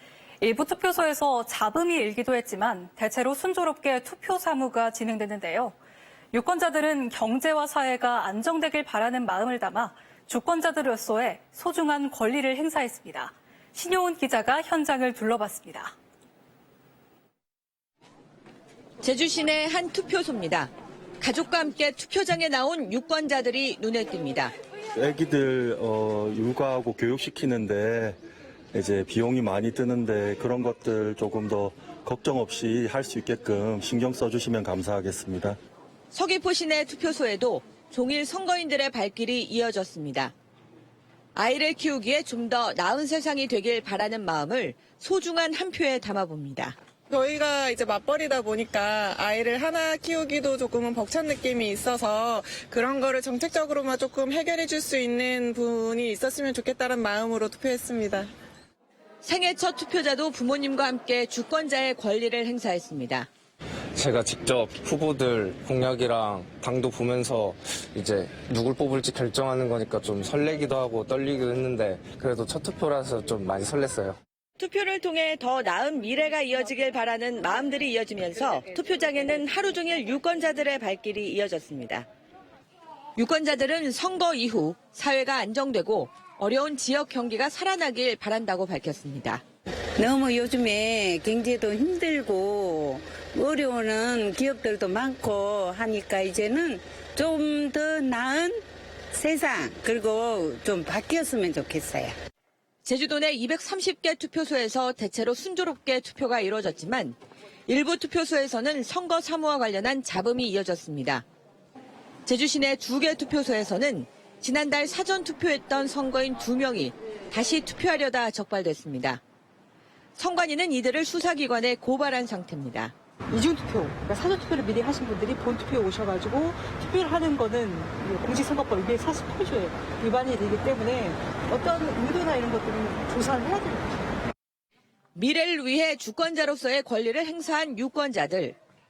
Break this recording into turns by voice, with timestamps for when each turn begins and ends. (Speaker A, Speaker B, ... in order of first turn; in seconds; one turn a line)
Speaker A: 0.4-5.8
Speaker A: 6.3-15.9
Speaker B: 19.0-24.5
Speaker C: 25.0-28.2
Speaker C: 28.7-35.6
Speaker B: 36.1-40.3
Speaker B: 41.3-46.7
Speaker D: 47.1-58.3
Speaker B: 59.2-63.3
Speaker E: 63.9-74.2
Speaker B: 74.6-82.0
Speaker B: 83.2-89.4
Speaker F: 90.0-102.1
Speaker B: 102.8-107.2
Speaker B: 107.7-111.2
Speaker B: 112.2-119.2
Speaker B: 120.2-122.9
Speaker G: 123.3-133.9
Speaker B: 135.1-138.6